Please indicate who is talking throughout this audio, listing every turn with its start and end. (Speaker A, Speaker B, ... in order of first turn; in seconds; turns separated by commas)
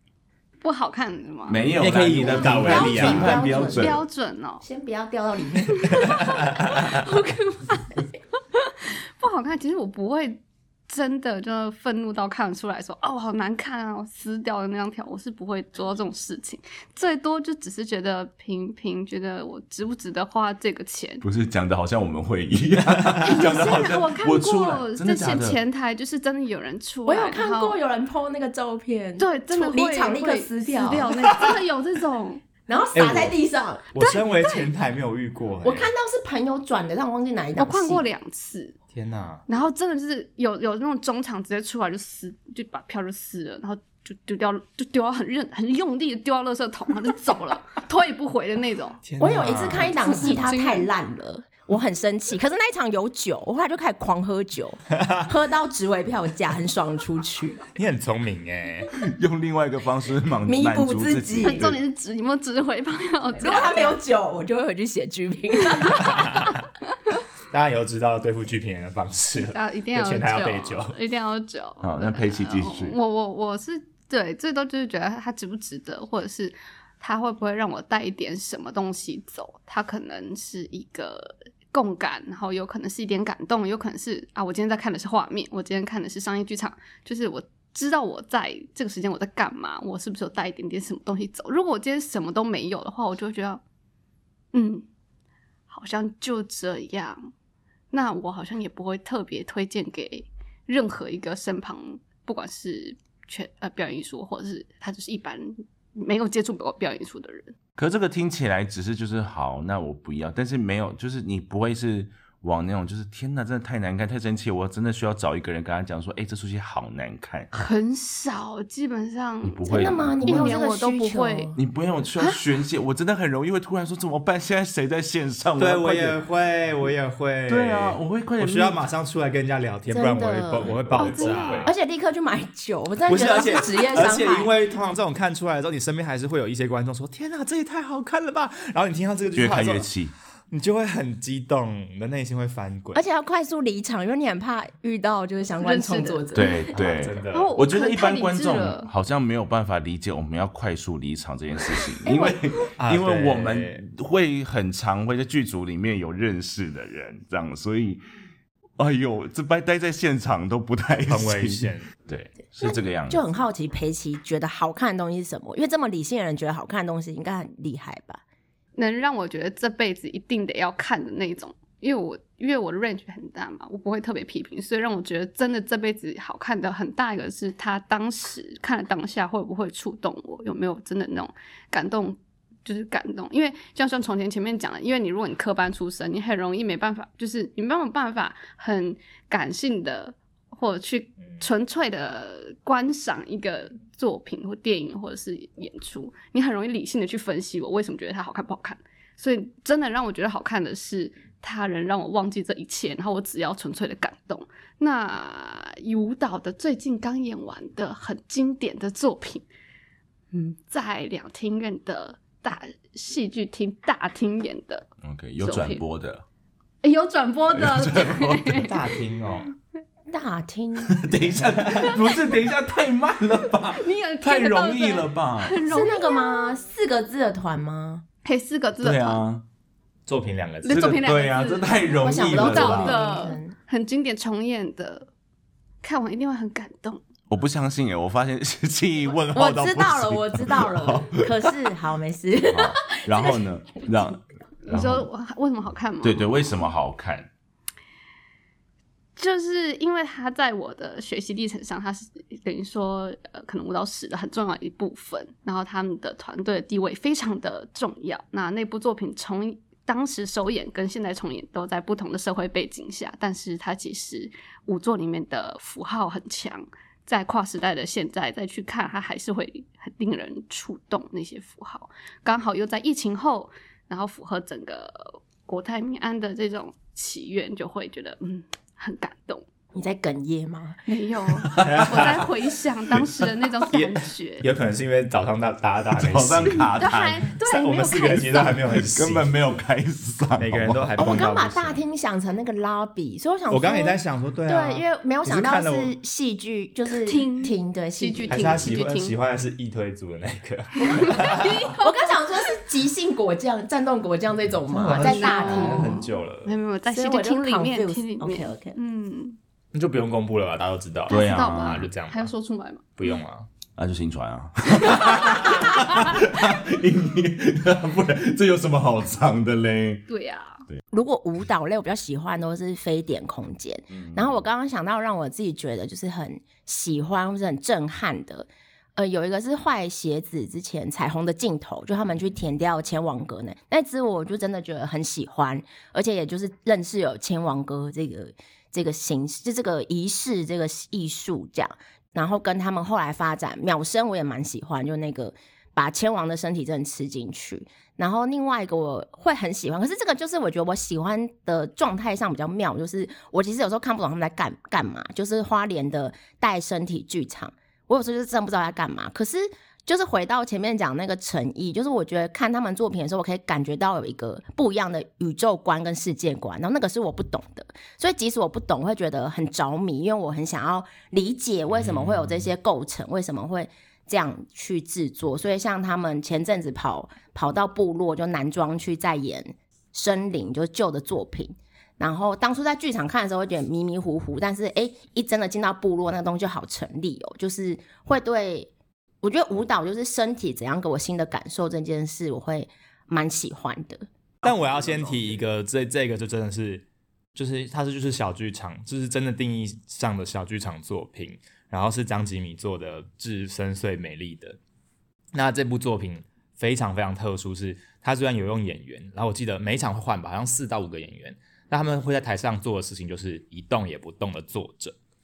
Speaker A: 0.6-1.6, Speaker B: 1.5-4.0, Speaker C: 1.8-3.3, Speaker D: 2.2-4.0, Speaker A: 3.3-4.6, Speaker D: 4.6-6.2, Speaker A: 5.8-21.2, Speaker C: 5.9-7.0, Speaker B: 21.2-25.6, Speaker A: 23.2-27.8, Speaker D: 27.1-31.2, Speaker A: 29.2-32.4, Speaker D: 32.7-33.9, Speaker C: 32.9-33.4, Speaker C: 33.9-35.9, Speaker A: 34.0-34.7, Speaker D: 35.6-38.0, Speaker A: 37.6-38.8, Speaker C: 38.9-39.4, Speaker A: 39.5-49.0, Speaker C: 49.0-50.4, Speaker D: 49.2-57.6, Speaker A: 49.6-50.9, Speaker C: 57.7-58.9, Speaker B: 59.0-61.8, Speaker D: 60.5-61.7, Speaker A: 61.4-64.0, Speaker D: 63.4-66.4, Speaker C: 66.0-66.6, Speaker C: 67.5-71.0, Speaker A: 69.4-93.6, Speaker B: 71.8-73.0, Speaker A: 94.5-94.9, Speaker A: 95.7-97.2, Speaker A: 97.9-107.5, Speaker B: 107.8-117.5, Speaker A: 117.5-121.5, Speaker B: 119.4-120.6, Speaker D: 119.7-121.6, Speaker B: 121.5-126.2, Speaker C: 125.6-131.7, Speaker B: 127.5-128.8, Speaker D: 129.9-134.5, Speaker B: 130.6-131.7, Speaker A: 130.9-131.7, Speaker C: 133.1-139.9, Speaker B: 139.3-140.1, Speaker C: 140.5-143.0, Speaker D: 142.9-147.0, Speaker A: 145.6-146.5, Speaker B: 146.3-158.0, Speaker C: 146.7-147.5, Speaker A: 147.3-148.9, Speaker D: 152.0-152.4, Speaker C: 152.8-153.8, Speaker B: 158.8-163.3, Speaker C: 161.1-161.9, Speaker D: 162.6-168.2, Speaker A: 168.8-209.4, Speaker A: 210.3-214.9, Speaker B: 215.0-216.2, Speaker A: 215.4-215.8, Speaker A: 216.8-218.8, Speaker B: 217.5-218.7, Speaker C: 218.6-219.5, Speaker D: 220.1-221.0, Speaker B: 220.8-225.6, Speaker A: 223.7-226.5, Speaker D: 225.7-228.0, Speaker A: 228.2-229.2, Speaker B: 228.8-229.4, Speaker C: 230.1-231.0, Speaker A: 230.6-235.1, Speaker B: 230.7-233.0, Speaker D: 231.9-233.5, Speaker C: 232.1-232.9, Speaker A: 235.8-237.0, Speaker B: 237.3-241.5, Speaker D: 239.3-243.4, Speaker B: 242.5-245.1, Speaker A: 244.7-246.6, Speaker B: 246.0-247.3, Speaker A: 249.2-279.4, Speaker D: 279.7-280.8, Speaker A: 280.9-284.4, Speaker B: 281.5-282.1, Speaker C: 281.6-282.3, Speaker C: 283.7-286.7, Speaker B: 285.9-287.3, Speaker A: 286.7-288.7, Speaker C: 287.4-289.3, Speaker B: 288.4-291.2, Speaker C: 290.4-291.8, Speaker D: 291.0-298.8, Speaker C: 293.5-295.9, Speaker A: 297.0-299.1, Speaker C: 298.3-301.7, Speaker A: 300.9-302.1, Speaker D: 301.7-306.0, Speaker C: 304.7-306.5, Speaker A: 304.9-309.4, Speaker D: 306.9-308.8, Speaker C: 309.7-312.3, Speaker B: 311.1-311.8, Speaker A: 311.1-313.2, Speaker C: 313.0-313.5, Speaker B: 313.8-320.0, Speaker A: 320.1-320.6, Speaker D: 320.9-388.7, Speaker B: 323.9-324.4, Speaker C: 371.7-372.4, Speaker D: 389.2-394.1, Speaker C: 394.4-404.6, Speaker C: 405.3-414.9